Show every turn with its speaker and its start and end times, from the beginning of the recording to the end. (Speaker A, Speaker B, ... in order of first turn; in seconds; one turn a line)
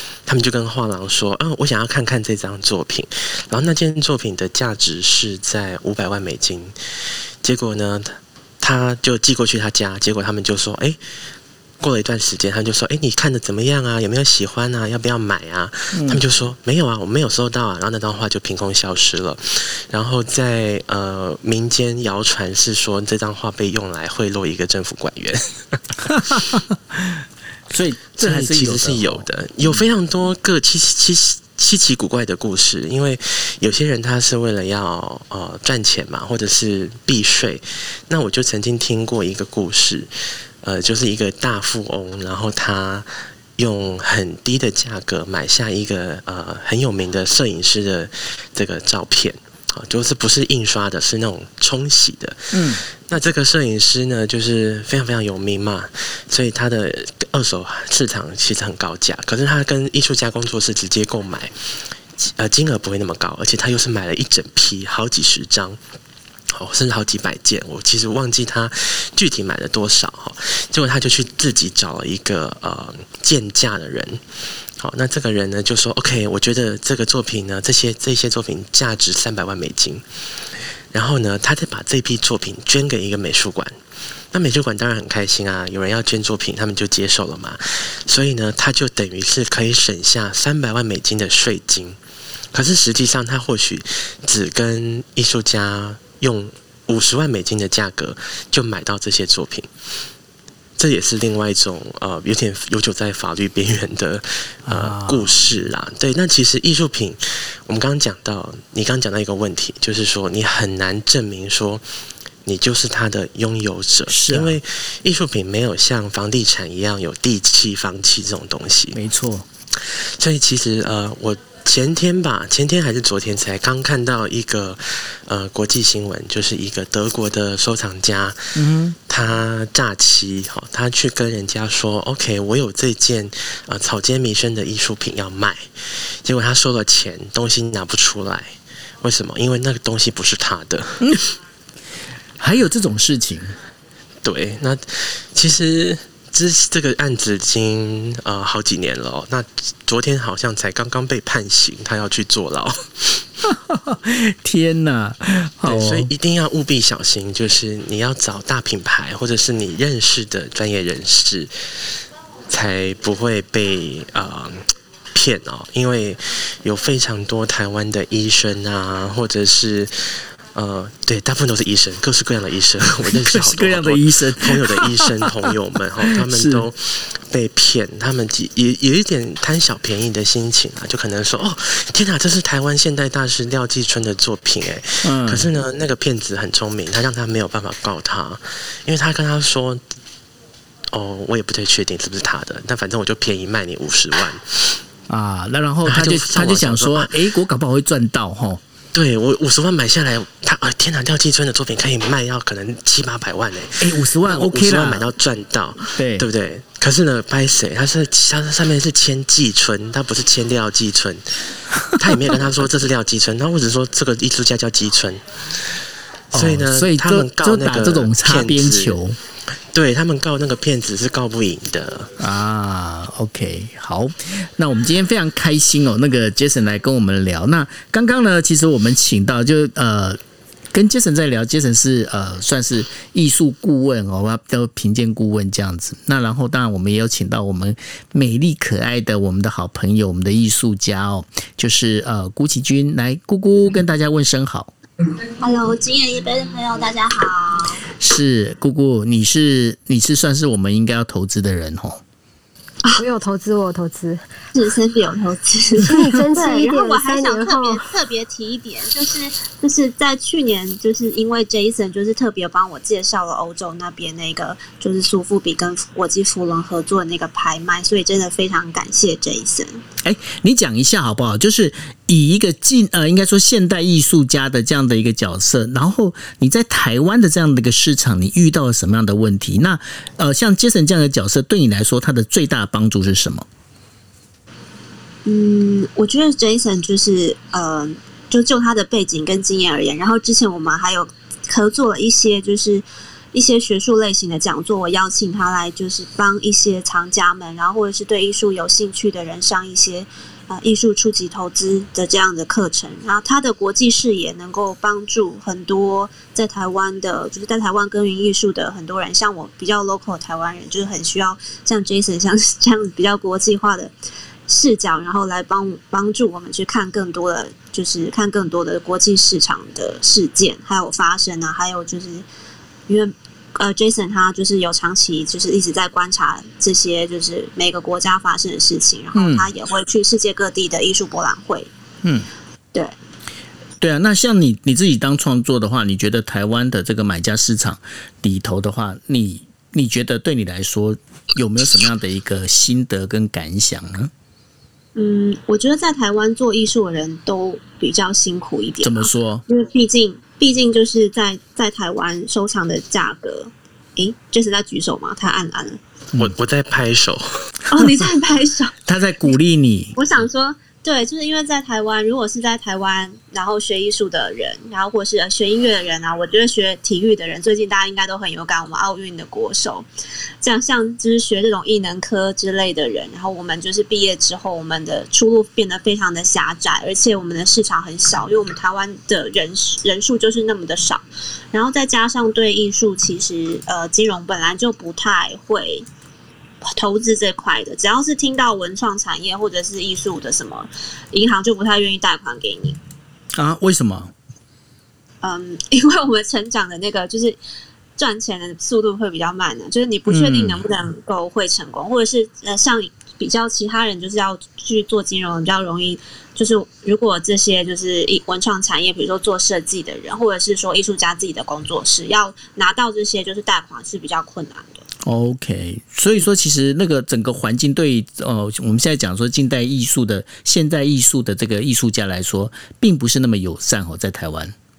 Speaker A: 0.3-6.8
Speaker A: 7.4-11.0
Speaker A: 11.8-26.4
Speaker B: 15.9-16.2
Speaker B: 26.1-29.8
Speaker A: 28.2-40.1
Speaker A: 40.6-61.5
Speaker B: 52.5-52.8
Speaker A: 62.2-65.8
Speaker A: 66.5-74.2
Speaker A: 74.8-80.0
Speaker A: 80.9-83.8
Speaker A: 84.3-92.0
Speaker A: 92.5-99.7
Speaker A: 100.8-111.8
Speaker B: 104.7-105.5
Speaker A: 112.5-119.0
Speaker B: 114.1-114.6
Speaker B: 118.9-119.5
Speaker A: 119.8-128.5
Speaker B: 128.6-129.0
Speaker A: 129.1-141.3
Speaker B: 142.4-143.6
Speaker A: 144.2-153.2
Speaker B: 153.4-156.1
Speaker A: 155.7-161.5
Speaker A: 162.5-189.8
Speaker B: 173.1-175.3
Speaker B: 176.2-176.7
Speaker B: 185.0-185.5
Speaker A: 190.9-194.8
Speaker B: 195.1-198.6
Speaker A: 195.8-197.2
Speaker A: 198.9-215.8
Speaker B: 203.8-205.1
Speaker B: 205.9-206.3
Speaker A: 216.3-219.0
Speaker B: 216.3-219.2
Speaker A: 219.7-222.2
Speaker B: 222.2-230.2
Speaker B: 230.7-244.7
Speaker C: 245.4-247.9
Speaker B: 248.0-252.0
Speaker D: 252.9-254.2
Speaker C: 254.5-269.8
Speaker D: 255.8-257.8
Speaker B: 270.0-283.5
Speaker C: 285.2-313.9
Speaker C: 314.5-322.3
Speaker C: 322.9-331.7
Speaker B: 329.1-329.5
Speaker B: 332.0-332.3
Speaker B: 333.8-344.1
Speaker C: 344.9-355.8
Speaker B: 348.8-349.4
Speaker A: 356.2-357.3
Speaker C: 357.7-358.7
Speaker B: 358.9-360.0
Speaker C: 360.0-369.9
Speaker C: 370.4-385.9
Speaker C: 386.6-392.8
Speaker B: 393.4-394.1
Speaker C: 395.2-397.4
Speaker C: 398.0-414.8
Speaker B: 400.1-400.6
Speaker B: 415.0-424.6